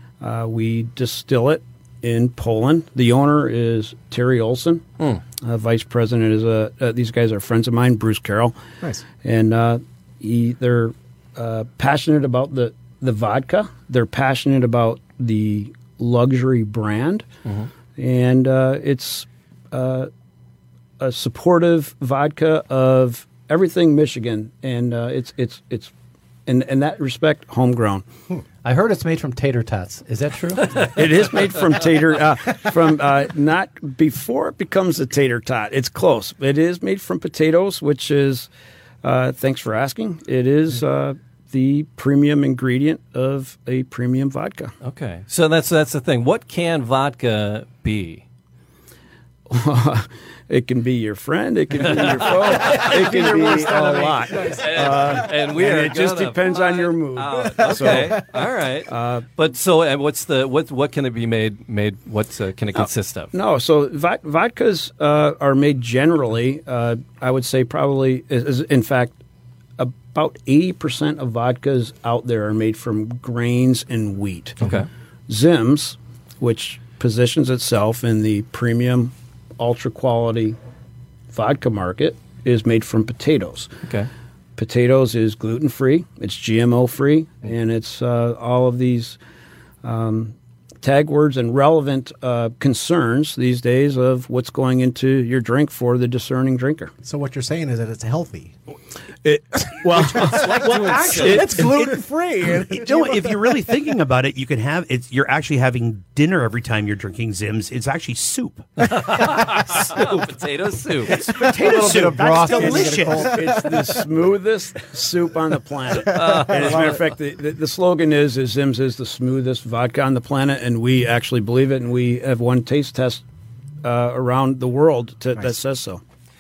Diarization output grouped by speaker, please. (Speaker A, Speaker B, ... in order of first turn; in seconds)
Speaker A: 0.2-4.8, 5.4-8.6, 9.2-17.3, 18.0-20.1, 21.0-25.9, 26.5-28.1, 30.9-38.5, 39.0-44.7, 49.5-58.2, 58.9-59.3, 63.3-69.2, 69.8-74.6, 75.3-80.6, 81.3-83.8, 84.6-89.2, 89.8-96.9, 113.2-123.2, 123.8-126.0
Speaker B: 28.6-31.0, 111.6-113.2
Speaker C: 44.8-48.2, 51.8-53.0, 54.4-63.3, 74.6-74.9, 100.0-101.7, 108.8-111.2, 116.1-117.0
Speaker D: 52.6-55.0, 57.6-58.2, 97.0-98.5, 99.8-103.5, 111.2-114.0, 116.0-117.0
Speaker E: 99.2-102.1, 102.6-108.8, 111.1-113.3